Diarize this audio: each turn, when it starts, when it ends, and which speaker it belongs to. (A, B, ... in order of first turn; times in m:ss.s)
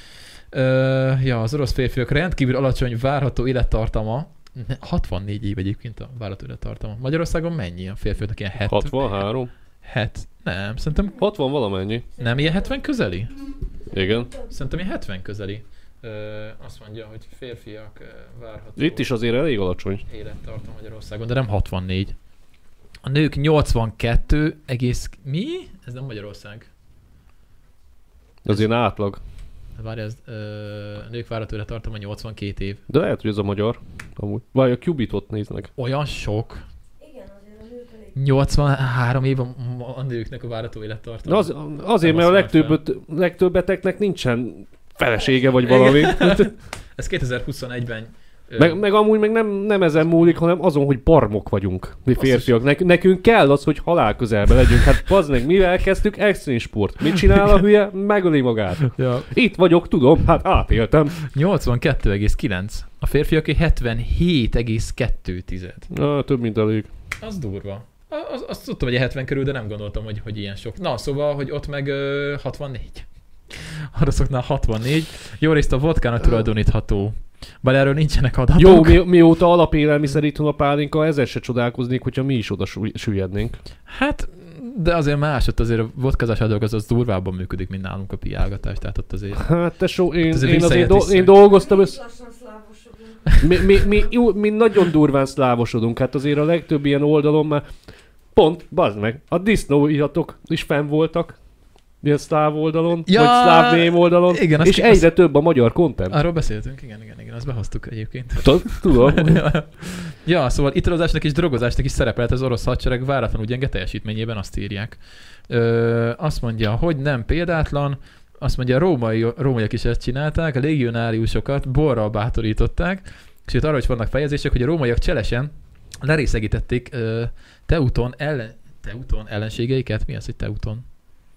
0:00.5-0:09.2 A
0:08.7-0:09.5 B
0:09.8-0:11.2 A
0:11.2-0:12.0 B
0:12.2-0:12.8 C
0:12.2-0:13.3 A
0:13.9-0:14.3 B
0:13.9-0:14.5 C
0:14.5-0:19.1 A
0:18.8-0:20.0 B
0:20.0-0:22.2 A
0:23.0-0:26.7 A
0:28.4-0:29.2 B
0:29.8-0:32.8 A
0:32.9-0:35.7 B
0:35.8-0:36.6 A
0:37.0-0:38.2 C
0:38.2-0:42.8 A
0:41.3-0:46.5 B
0:45.2-0:45.7 C
0:45.6-0:48.8 A
0:48.6-1:01.2 B
0:52.2-0:52.5 A
0:58.9-0:59.3 A
1:01.2-1:05.9 A
1:05.9-1:06.9 B
1:07.2-1:19.0 A
1:18.6-1:23.6 B
1:23.9-1:29.5 A
1:29.3-1:32.0 B
1:30.2-1:31.4 A
1:31.4-1:34.2 C
1:33.4-1:37.7 B
1:38.3-1:41.4 B
1:42.0-1:46.2 B
1:43.1-1:45.1 A
1:46.1-2:10.9 A
1:48.4-1:49.4 B